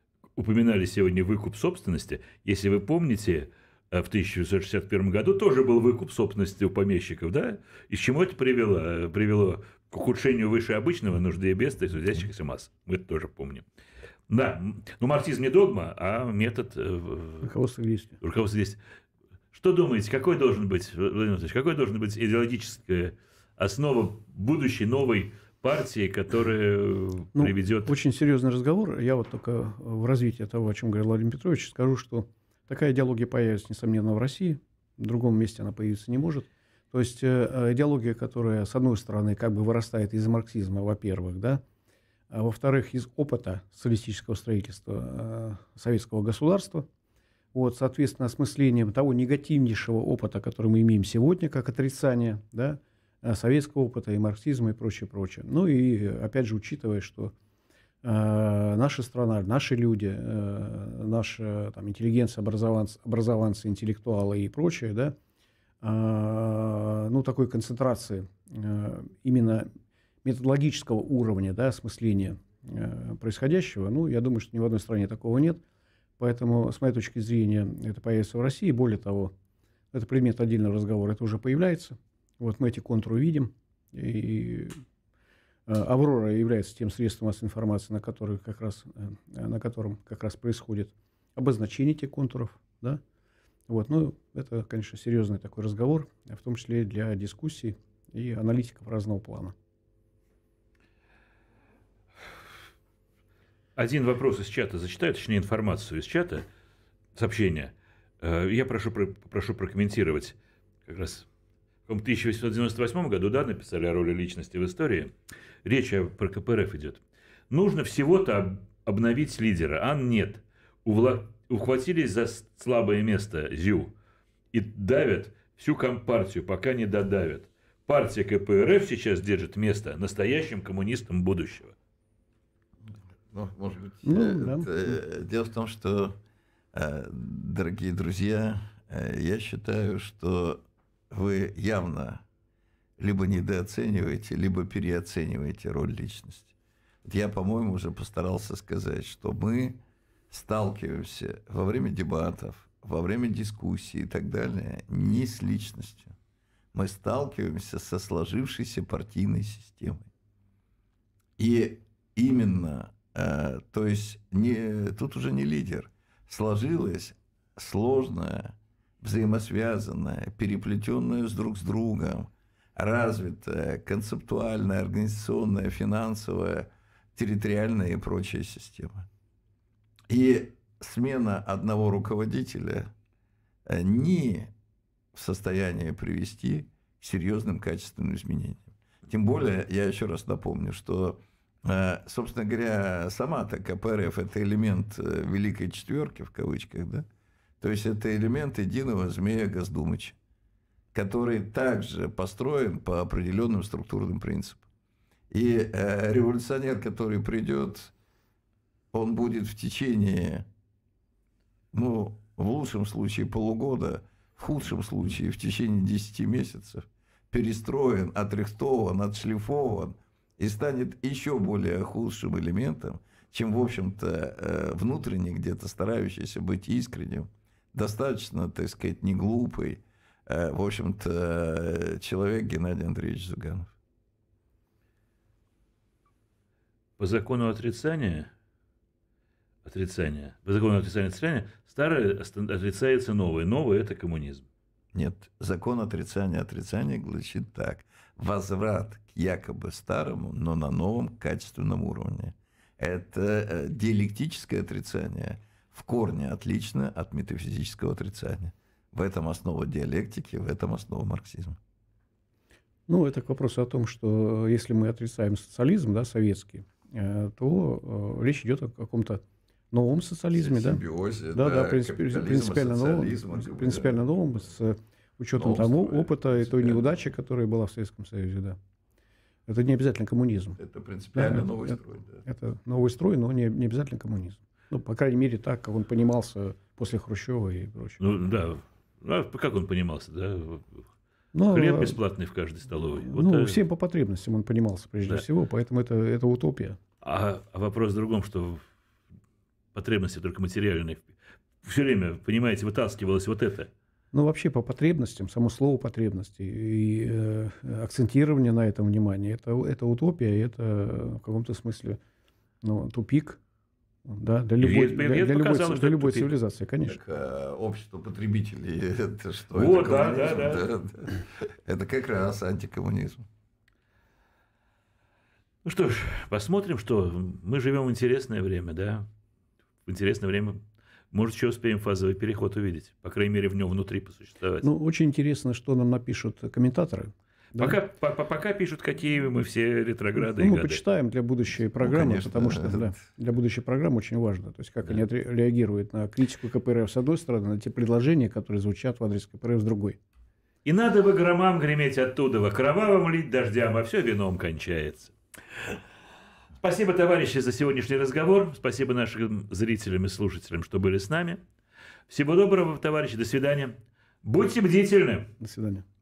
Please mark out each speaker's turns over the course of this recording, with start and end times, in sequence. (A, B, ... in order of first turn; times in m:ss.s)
0:00.4-0:13.6 A
0:14.3-0:17.5 A
0:17.4-0:18.2 B
0:18.2-0:18.8 A
0:19.5-0:27.9 A
0:27.3-0:41.6 B
0:42.3-0:46.9 B
0:47.5-0:57.3 B
0:58.0-1:05.1 B
1:05.8-1:09.7 B
1:10.2-1:15.6 B
1:16.2-1:19.3 B
1:19.9-1:24.8 B
1:25.7-1:33.0 B
1:33.7-1:39.5 B
1:43.8-1:46.4 A
1:47.1-1:51.3 A
1:51.9-1:55.1 A
1:55.6-2:03.9 A
2:04.5-2:11.7 A
2:13.3-2:16.2 C
2:14.0-2:15.0 B
2:16.7-2:22.2 C
2:23.0-2:36.1 C
2:36.7-2:40.0 C
2:41.4-2:59.1 C
3:00.1-3:02.9 C
3:03.6-3:04.5 C
3:05.1-3:17.0 C
3:17.6-3:20.2 C
3:20.9-3:24.6 C
3:25.3-3:27.9 C
3:28.9-3:30.4 C
3:31.7-3:53.7 C
3:57.0-3:58.3 A
3:59.6-4:04.4 A
4:04.9-4:21.6 C
4:22.9-4:30.8 B
4:30.3-4:34.1 C
4:31.3-4:38.6 B
4:35.3-4:36.9 C
4:39.5-4:40.6 B
4:40.6-4:42.2 C
4:41.1-4:48.0 B
4:48.0-4:50.8 A
4:51.3-4:52.0 B
4:51.5-4:53.6 A
4:53.0-4:56.8 B
4:57.0-4:58.6 A
4:59.7-5:01.1 A
5:01.6-5:03.7 A
5:04.1-5:12.0 B
5:12.6-5:13.4 B
5:14.0-5:17.0 B
5:14.6-5:16.3 A
5:16.9-5:23.2 C
5:19.5-5:20.6 A
5:25.6-5:29.1 A
5:29.8-5:34.7 A
5:34.6-5:37.8 B
5:37.6-5:40.8 A
5:40.2-5:50.0 B
5:41.8-5:43.0 C
5:50.6-5:55.8 A
5:56.6-6:01.4 A
6:02.1-6:05.3 A
6:05.4-6:05.8 B